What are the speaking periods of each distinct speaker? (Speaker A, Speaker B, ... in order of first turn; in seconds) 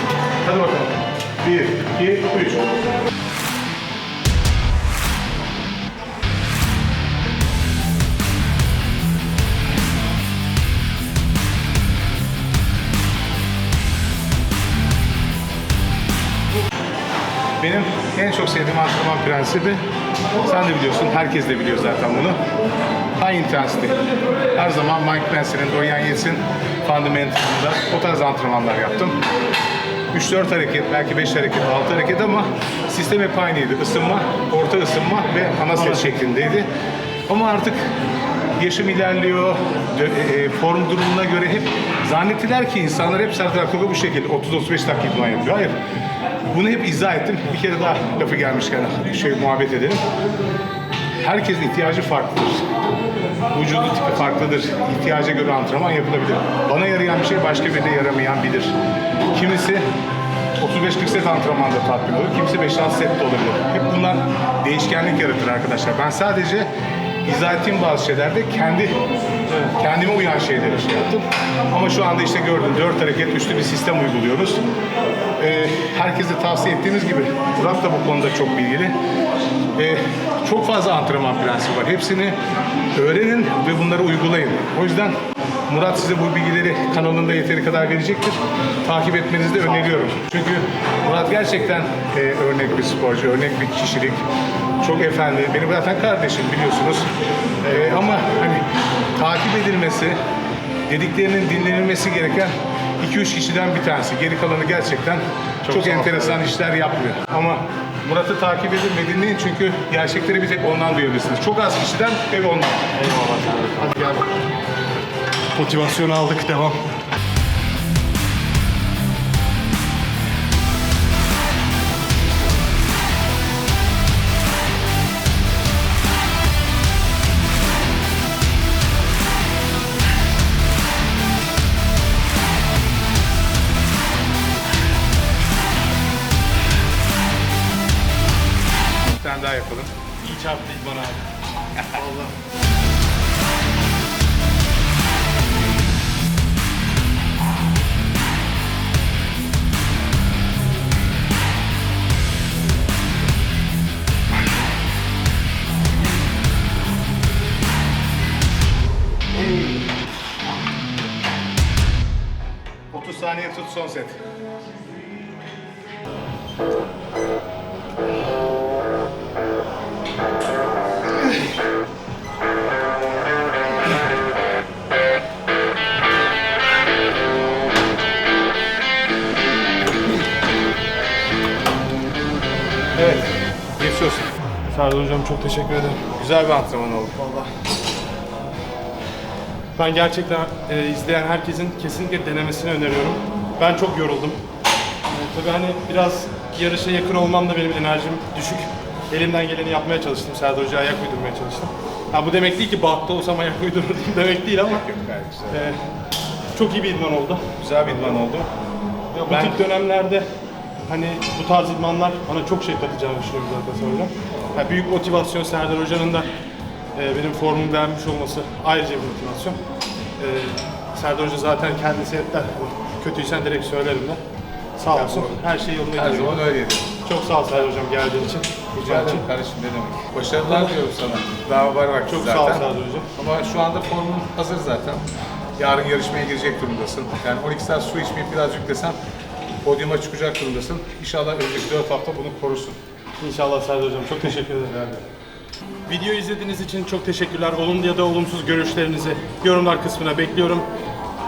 Speaker A: 0.4-2.7, 17.6-19.8, 20.4-22.4, 23.2-29.2, 30.1-36.7, 37.3-37.9, 38.6-45.8, 46.5-50.0, 51.2-52.6, 53.5-58.8, 59.3-59.9, 60.6-66.7, 67.2-69.0, 69.7-74.6, 75.4-79.0, 79.8-82.4, 82.9-94.2, 94.8-97.1, 97.6-100.2, 100.9-112.9, 139.1-139.9, 162.9-164.2, 182.9-184.3, 186.2-187.2, 204.7-205.7, 207.6-208.5, 209.3-209.6, 224.9-225.4, 225.9-226.9, 228.7-235.0, 235.6-239.0, 239.6-242.8
Speaker B: 35.8-36.1, 97.7-98.1, 105.6-106.5, 112.9-114.4, 115.5-116.8, 140.2-141.2, 141.9-142.4, 184.6-186.1, 187.1-187.5, 189.7-194.4, 195.0-204.8, 205.5-205.8, 206.5-208.1, 209.1-210.3, 210.8-216.3, 216.9-219.6, 220.2-224.2, 224.8-226.5, 227.0-229.3, 230.4-230.8, 232.1-233.1, 243.2-245.0, 245.9-250.7